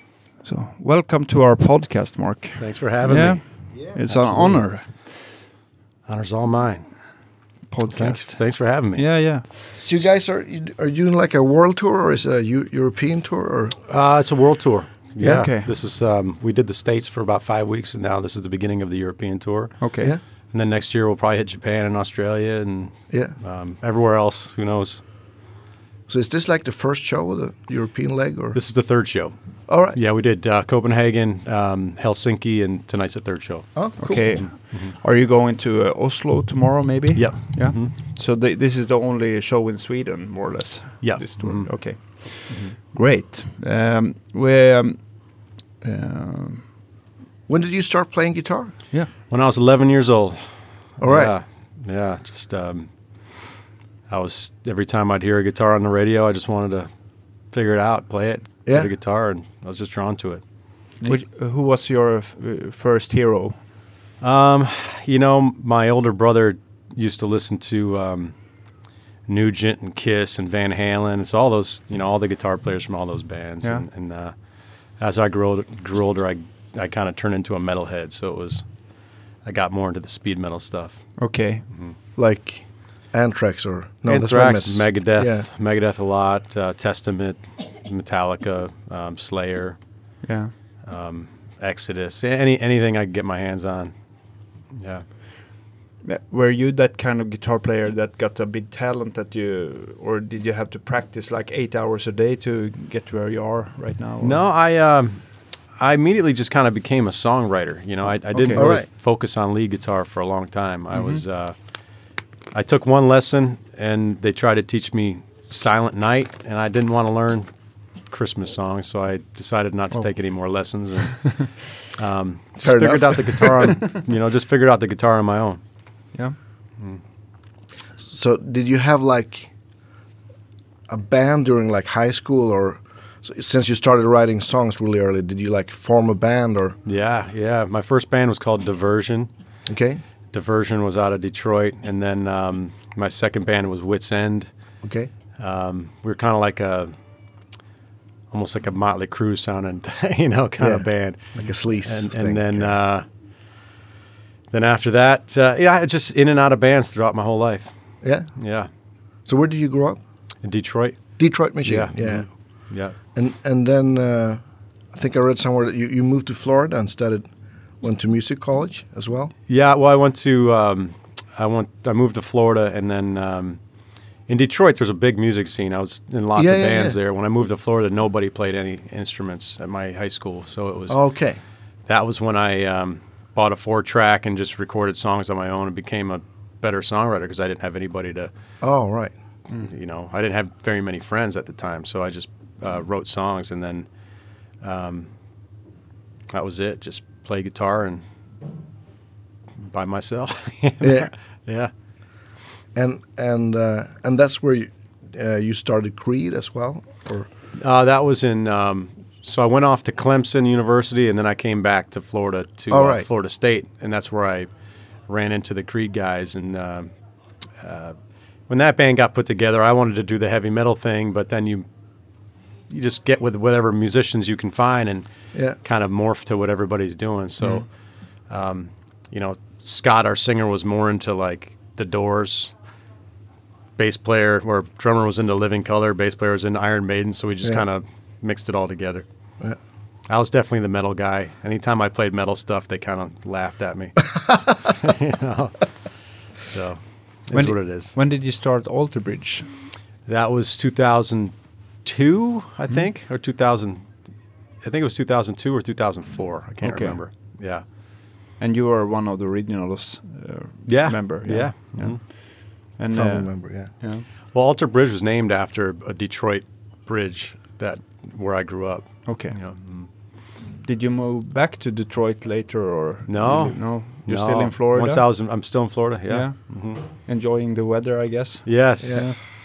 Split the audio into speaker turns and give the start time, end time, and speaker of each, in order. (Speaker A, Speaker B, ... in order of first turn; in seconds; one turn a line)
Speaker A: 0.4-4.9
Speaker B: 2.6-3.4
Speaker C: 3.8-4.6
Speaker B: 6.1-6.9
Speaker A: 7.7-9.4
Speaker B: 7.9-9.0
Speaker C: 9.8-13.8
Speaker B: 13.9-19.8
Speaker A: 15.2-15.7
Speaker A: 19.8-20.1
Speaker B: 20.5-25.0
Speaker C: 23.1-23.3
Speaker C: 26.1-28.6
Speaker B: 28.5-29.3
Speaker C: 29.7-30.0
Speaker B: 29.9-33.7
Speaker C: 33.8-34.4
Speaker A: 34.0-45.0
Speaker B: 34.4-34.9
Speaker B: 37.1-37.9
Speaker B: 41.0-41.7
Speaker B: 42.5-42.7
Speaker A: 45.8-46.6
Speaker C: 47.5-48.7
Speaker B: 49.3-50.4
Speaker B: 51.0-52.9
Speaker C: 51.0-51.3
Speaker B: 54.1-56.9
Speaker B: 57.5-60.4
Speaker A: 61.0-63.6
Speaker B: 64.2-68.3
Speaker B: 69.3-74.3
Speaker B: 75.0-78.6
Speaker B: 79.4-81.0
Speaker A: 81.2-81.7
Speaker C: 82.2-85.5
Speaker B: 84.1-89.8
Speaker A: 90.2-90.5
Speaker B: 90.8-93.9
Speaker B: 94.7-95.0
Speaker A: 96.0-104.4
Speaker B: 104.2-105.2
Speaker B: 105.8-111.5
Speaker A: 108.3-108.7
Speaker C: 108.5-108.9
Speaker A: 110.9-111.2
Speaker B: 112.5-117.5
Speaker B: 118.1-125.6
Speaker C: 122.6-123.7
Speaker C: 128.0-129.5
Speaker C: 130.9-136.8
Speaker B: 136.8-139.3
Speaker C: 139.7-140.0
Speaker B: 140.3-144.5
Speaker C: 144.8-145.1
Speaker B: 145.4-146.9
Speaker B: 148.3-153.1
Speaker C: 150.6-152.7
Speaker B: 154.5-157.7
Speaker C: 158.0-158.3
Speaker B: 158.3-158.7
Speaker C: 159.2-160.0
Speaker B: 160.4-161.0
Speaker C: 161.2-162.3
Speaker B: 161.6-162.9
Speaker C: 163.1-164.4
Speaker C: 164.9-167.3
Speaker C: 167.8-169.3
Speaker B: 169.5-173.6
Speaker B: 174.3-181.0
Speaker C: 176.3-177.0
Speaker C: 180.9-181.4
Speaker B: 181.9-188.3
Speaker C: 188.6-189.1
Speaker B: 189.6-193.9
Speaker B: 194.6-195.1
Speaker B: 196.3-198.0
Speaker B: 199.6-201.7
Speaker C: 200.8-201.1
Speaker C: 202.7-207.3
Speaker B: 207.6-214.5
Speaker C: 212.7-213.1
Speaker B: 215.1-216.9
Speaker B: 217.6-218.0
Speaker B: 218.5-221.7
Speaker B: 222.7-225.1
Speaker B: 225.6-227.6
Speaker B: 228.3-232.5
Speaker B: 233.8-239.1
Speaker B: 240.1-245.6
Speaker B: 246.4-247.9
Speaker A: 247.3-249.5
Speaker B: 250.1-253.8
Speaker B: 254.6-257.6
Speaker A: 256.6-257.0
Speaker A: 258.4-262.2
Speaker B: 260.6-262.0
Speaker A: 262.8-264.0
Speaker C: 262.9-263.7
Speaker B: 264.3-269.9
Speaker A: 269.1-269.3
Speaker A: 270.5-275.0
Speaker B: 273.1-276.8
Speaker A: 276.1-279.1
Speaker B: 278.4-279.2
Speaker C: 278.8-279.1